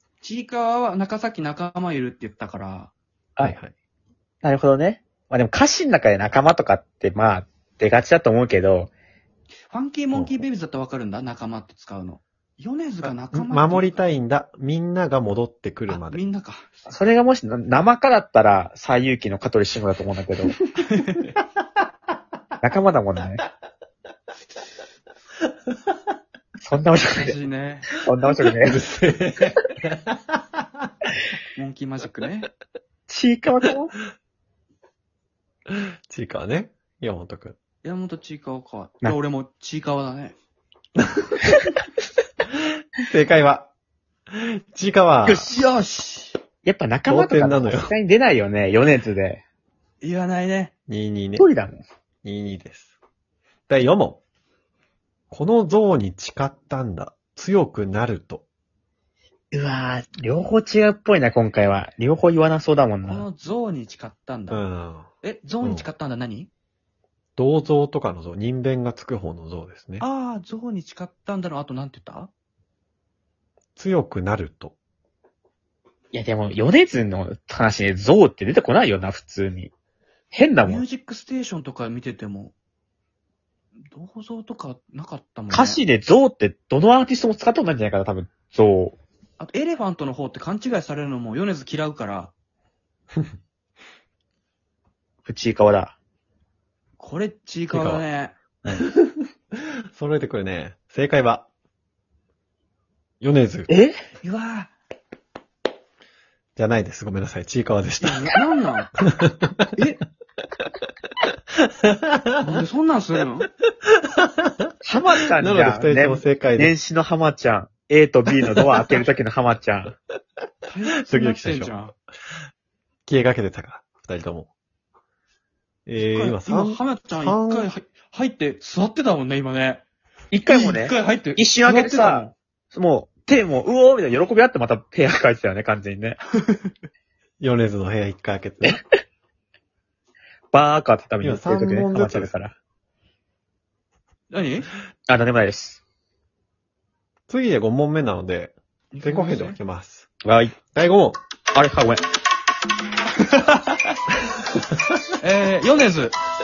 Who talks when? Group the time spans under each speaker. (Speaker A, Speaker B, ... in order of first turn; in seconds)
Speaker A: 0.2-2.9, 9.7-14.0, 15.9-16.9, 20.8-21.3, 27.1-27.9, 31.6-32.5, 37.8-40.4, 45.5-46.4, 50.0-50.7, 63.0-64.6, 65.2-66.5, 70.0-72.3, 80.6-82.5, 83.9-85.8, 89.4-92.3, 97.0-98.3, 104.2-104.7, 108.0-108.9, 109.8-110.0, 112.4-113.5, 120.7-121.9, 126.0-129.8, 130.5-132.3, 144.3-144.7, 148.9-149.6, 153.1-154.0, 155.2-156.2
Speaker B: 3.4-3.7, 10.1-10.4, 13.3-16.2, 28.4-30.7, 35.7-37.6, 41.0-41.3, 43.0-43.7, 44.3-45.5, 47.1-48.0, 50.9-51.5, 52.2-52.9, 53.7-54.2, 55.3-58.5, 64.5-65.1, 65.6-65.9, 67.4-70.0, 73.8-74.8, 97.7-98.0, 98.7-101.5, 103.2-103.7, 106.6-108.3, 109.0-109.7, 111.7-112.6, 113.8-114.7, 115.4-116.7, 118.4-119.0, 121.1-121.7, 123.1-124.5, 125.9-127.7, 137.4-138.8, 141.2-142.3, 147.3-151.2
Speaker C: 4.4-8.9, 16.9-20.6, 22.6-23.4, 26.6-27.4, 28.0-28.8, 33.1-33.9, 45.2-45.5, 46.6-49.4, 51.4-51.8, 59.5-63.3, 76.1-79.7, 80.3-80.8, 85.5-89.0, 95.3-96.0, 103.7-104.0, 114.8-120.0, 130.3-136.2, 140.5-142.5, 145.1-145.8, 150.2-150.6, 151.5-152.0